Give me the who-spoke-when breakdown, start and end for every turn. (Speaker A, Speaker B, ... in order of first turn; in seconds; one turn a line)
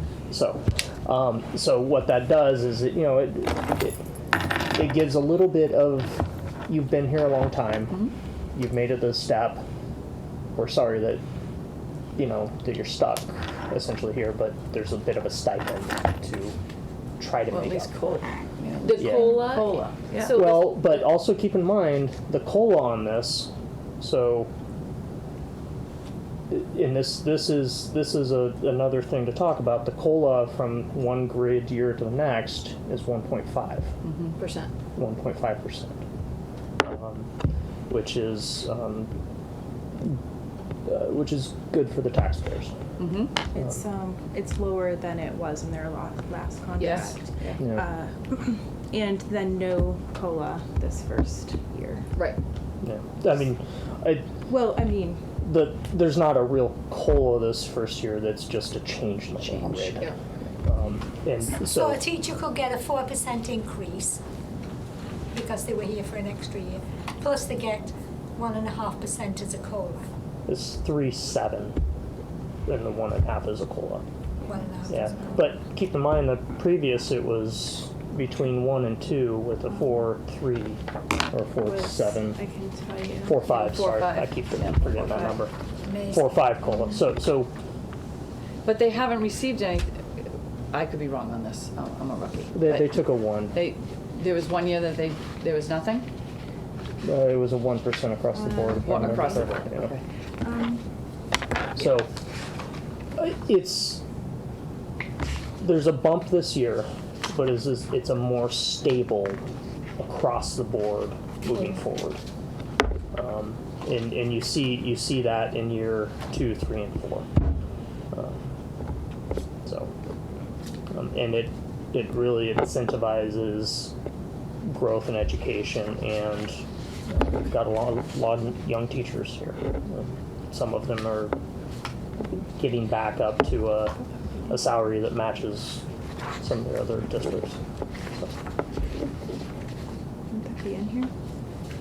Speaker A: 0.3-4.0
Speaker A: 4.7-9.6
Speaker A: 10.6-11.2
Speaker A: 12.2-16.6
Speaker A: 17.2-18.2
Speaker B: 17.5-20.5
Speaker C: 18.8-20.7
Speaker A: 19.0-19.5
Speaker A: 20.2-24.5
Speaker A: 26.5-33.9
Speaker B: 34.0-34.3
Speaker C: 34.4-34.7
Speaker A: 35.0-36.0
Speaker A: 36.8-37.3
Speaker A: 37.9-39.1
Speaker A: 40.9-42.8
Speaker B: 43.0-43.3
Speaker D: 43.5-52.1
Speaker C: 46.8-47.1
Speaker A: 47.6-47.9
Speaker A: 52.8-54.3
Speaker D: 54.5-55.2
Speaker A: 55.4-60.1
Speaker B: 59.5-59.9
Speaker A: 60.6-62.0
Speaker E: 61.6-64.2
Speaker E: 65.3-70.1
Speaker A: 70.5-71.8
Speaker A: 72.7-74.0
Speaker E: 74.4-75.5
Speaker A: 74.9-82.4
Speaker D: 81.5-83.5
Speaker A: 83.2-85.5
Speaker B: 83.5-85.4
Speaker E: 85.8-86.6
Speaker A: 86.1-87.5
Speaker B: 88.6-96.1
Speaker A: 92.5-93.6
Speaker A: 97.0-99.9
Speaker D: 98.3-99.4
Speaker B: 98.8-100.0
Speaker D: 100.4-100.8
Speaker A: 101.7-102.1
Speaker A: 103.2-104.0
Speaker A: 105.6-109.4
Speaker A: 110.0-112.2
Speaker A: 113.1-117.3
Speaker A: 118.1-118.5
Speaker A: 119.6-119.9
Speaker A: 120.9-123.9
Speaker A: 124.6-131.3
Speaker A: 132.6-133.9
Speaker A: 134.5-135.8
Speaker A: 136.4-137.6
Speaker D: 140.3-141.1